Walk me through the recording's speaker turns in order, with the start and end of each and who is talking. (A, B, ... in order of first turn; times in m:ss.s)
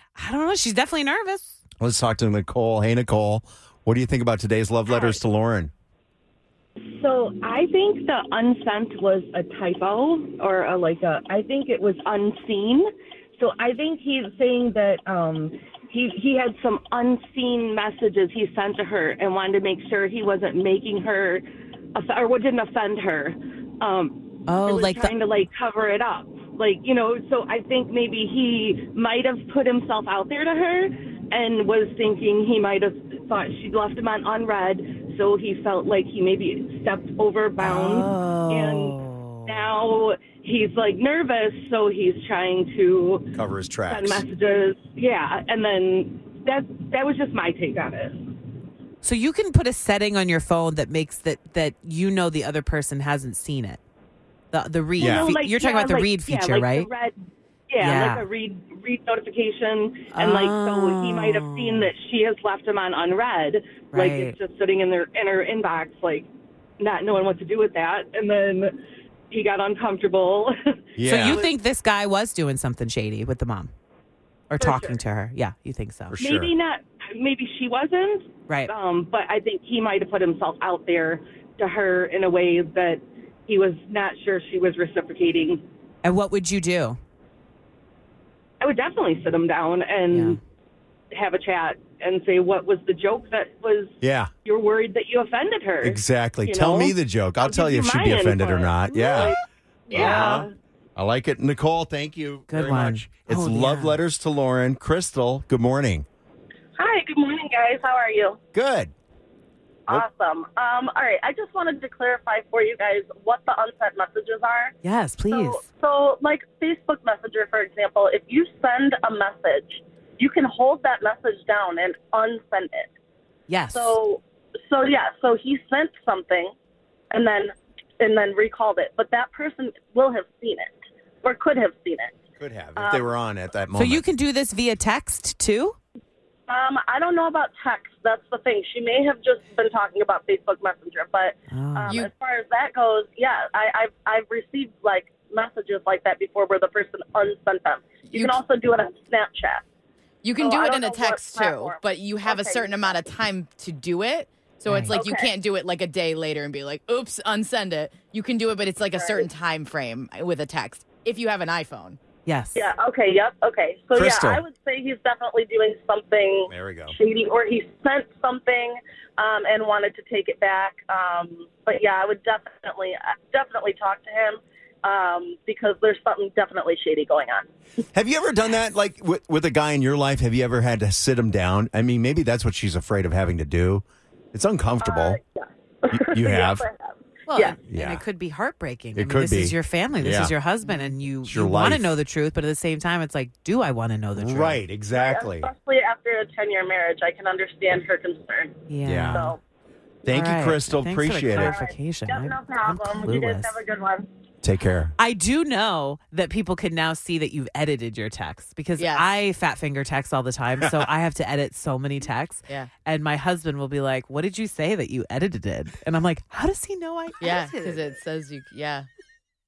0:00.2-0:01.6 A
0:01.8-0:05.7 B
0:06.8-0:21.4 C
0:22.0-0:43.3 C
0:24.5-0:25.1 A
0:37.6-0:39.7 A
0:43.3-0:44.2 B
0:43.9-0:48.3 C
0:49.0-0:53.8 A
0:54.5-0:56.9 A
0:55.0-0:55.3 B
0:55.0-0:57.2 C
0:57.7-1:06.3 C
0:57.8-0:58.3 A
1:00.1-1:01.9 A
1:03.9-1:04.4 A
1:06.8-1:08.7 C
1:09.3-1:10.5 C
1:11.0-1:11.4 B
1:11.0-1:13.7 A
1:11.2-1:11.5 C
1:14.5-1:16.2 A
1:14.6-1:15.0 C
1:16.1-1:16.5 B
1:16.2-1:25.6 C
1:26.0-1:27.0 A
1:28.6-1:30.4 C
1:30.1-1:30.4 A
1:31.1-1:39.4 C
1:34.0-1:34.3 B
1:35.8-1:39.4 B
1:39.9-1:40.5 C
1:39.9-1:46.1 B
1:40.0-1:40.4 D
1:40.0-1:40.4 A
1:42.5-1:44.0 A
1:46.8-1:48.4 D
1:48.5-1:48.9 B
1:49.9-1:54.7 D
1:54.8-1:55.6 A
1:55.3-2:02.9 D
2:03.5-2:04.0 A
2:03.7-2:06.5 D
2:07.1-2:12.2 D
2:12.4-2:14.0 B
2:12.8-2:13.1 D
2:13.8-2:15.8 A
2:16.5-2:29.6 D
2:21.5-2:22.0 A
2:28.0-2:28.4 E
2:30.2-2:42.0 E
2:30.4-2:33.0 D
2:34.7-2:35.0 A
2:34.9-2:35.3 D
2:39.0-2:39.3 D
2:42.3-2:42.7 A
2:42.6-2:57.5 D
2:44.0-2:44.4 B
2:46.5-2:47.0 B
2:57.9-3:05.2 B
3:04.8-3:07.6 D
3:05.9-3:06.7 B
3:07.3-3:14.6 A
3:07.7-3:08.0 B
3:09.0-3:10.3 B
3:11.2-3:11.9 B
3:14.2-3:15.5 B
3:15.0-3:19.4 D
3:18.7-3:19.3 A
3:18.8-3:19.3 B
3:20.0-3:21.6 B
3:20.1-3:23.6 A
3:21.3-3:24.1 D
3:24.4-3:24.9 B
3:25.0-3:37.8 A
3:28.8-3:29.1 E
3:30.6-3:30.9 B
3:37.2-3:38.9 E